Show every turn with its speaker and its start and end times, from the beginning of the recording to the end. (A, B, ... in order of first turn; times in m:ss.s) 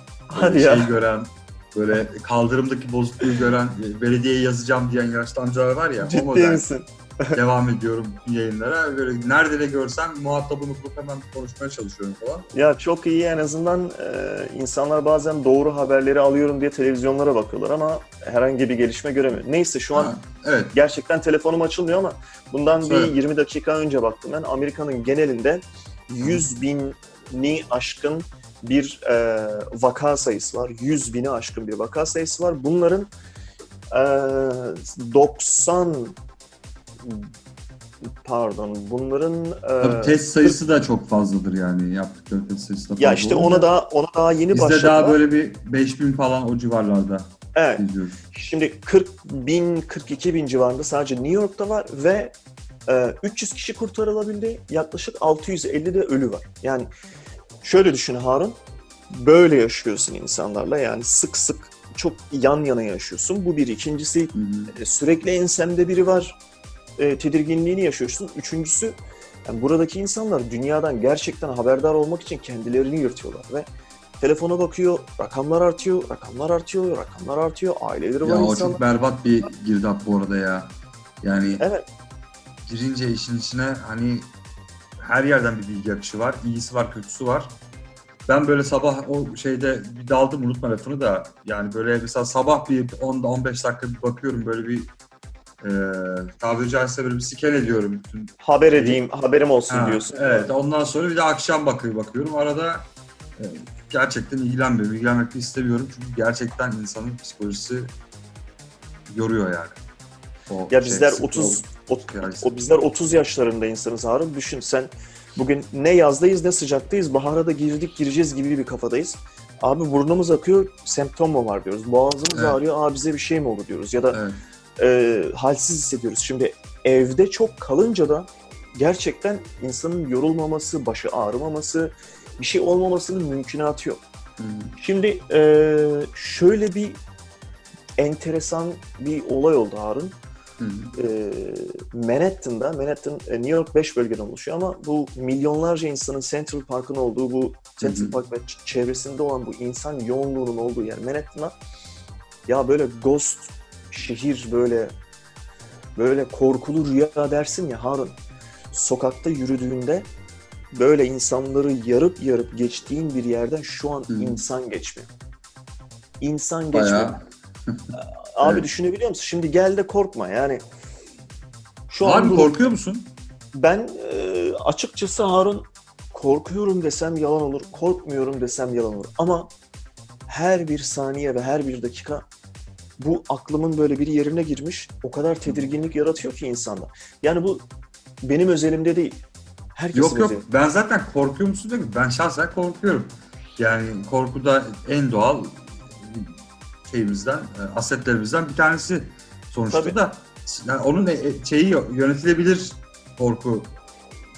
0:00.3-0:00.9 A
0:00.4-0:06.6 B
0:06.0-0:07.4 A
0:07.3-0:12.5 B
0:12.5-0:20.1 A
0:20.0-0:20.8 B
0:20.7-0:33.1 A
0:22.8-0:23.1 B
0:26.2-0:26.5 B
0:33.9-0:36.2 A
0:37.0-0:37.3 A
0:38.0-0:40.6 A
0:39.8-0:43.7 B
0:43.0-0:45.2 A
0:44.5-0:48.2 B
0:47.5-0:52.3 A
0:52.9-0:56.9 A
0:57.6-0:58.6 A
0:59.1-1:06.4 A
1:04.3-1:04.7 B
1:07.0-1:09.0 A
1:09.5-1:13.7 A
1:14.2-1:18.8 A
1:18.2-1:20.7 B
1:21.2-1:21.6 B
1:21.6-1:21.9 A
1:22.6-1:24.3 B
1:25.0-1:27.5 B
1:28.3-1:34.9 B
1:35.6-1:39.0 B
1:38.4-1:40.5 A
1:39.7-1:47.9 B
1:49.1-1:49.8 B
1:50.5-1:52.6 B
1:50.7-2:04.2 A
2:04.1-2:04.4 B
2:04.8-2:14.0 A
2:14.4-2:14.7 B
2:14.8-2:17.0 A
2:18.0-2:20.2 A
2:20.6-2:20.9 B
2:21.0-2:31.6 A
2:27.8-2:28.1 B
2:32.5-2:34.9 A
2:36.0-2:38.2 A
2:38.7-2:40.1 A
2:40.7-2:45.1 A
2:44.1-2:44.4 B
2:46.2-2:47.2 A
2:46.7-2:48.7 B
2:48.0-2:50.6 A
2:51.9-2:52.7 A
2:52.0-2:53.1 B
2:53.5-2:59.5 A
3:00.3-3:02.3 A
3:03.0-3:07.6 A
3:08.2-3:09.2 A
3:09.8-3:10.5 A
3:09.9-3:23.7 B
3:19.7-3:20.0 A